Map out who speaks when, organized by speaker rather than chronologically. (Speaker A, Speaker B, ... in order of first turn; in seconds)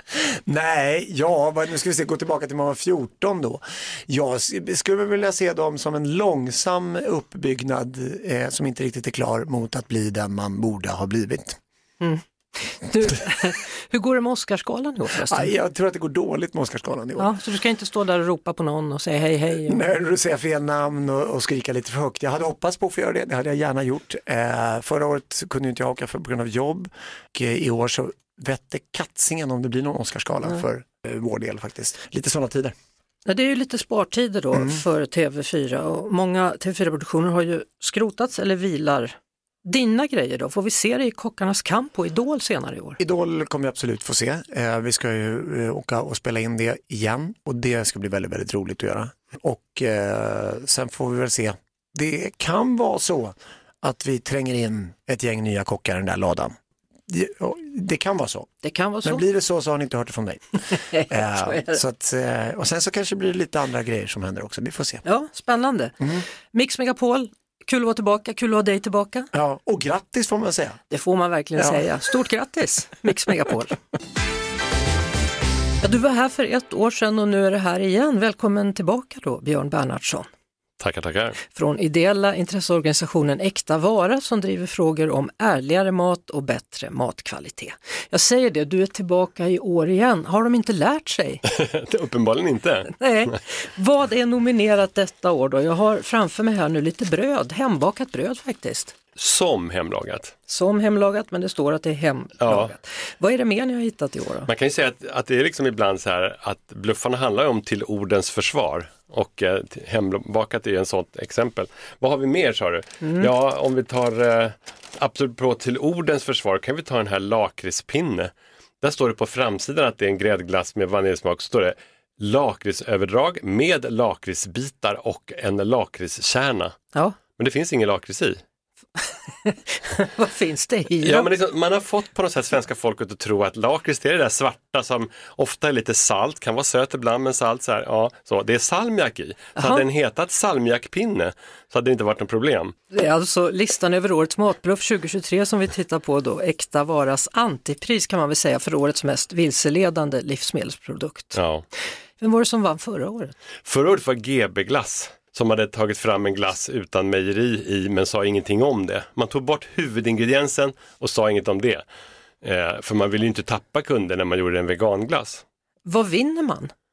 Speaker A: 0.3-11.6, 15.3-17.3, 19.7-32.7, 34.5-34.8, 43.0-56.5, 57.1-58.5, 59.0-65.0, 69.3-70.8, 71.6-71.9
Speaker B: 12.0-15.5, 17.2-19.9, 33.3-43.0, 58.6-59.2, 60.9-61.8, 65.0-66.0, 66.5-69.3, 70.9-73.8, 75.8-80.3, 81.5-91.4, 93.0-99.0, 100.5-104.5, 113.0-113.3, 126.9-127.2, 129.4-131.3, 139.6-139.9, 142.9-151.4, 152.2-153.3, 165.8-166.7
Speaker C: 80.8-81.4, 91.5-92.9, 99.2-100.3, 102.4-102.7, 104.5-118.3, 118.8-126.8, 127.4-128.4, 131.0-142.7, 151.3-151.6, 153.7-161.8, 162.4-165.4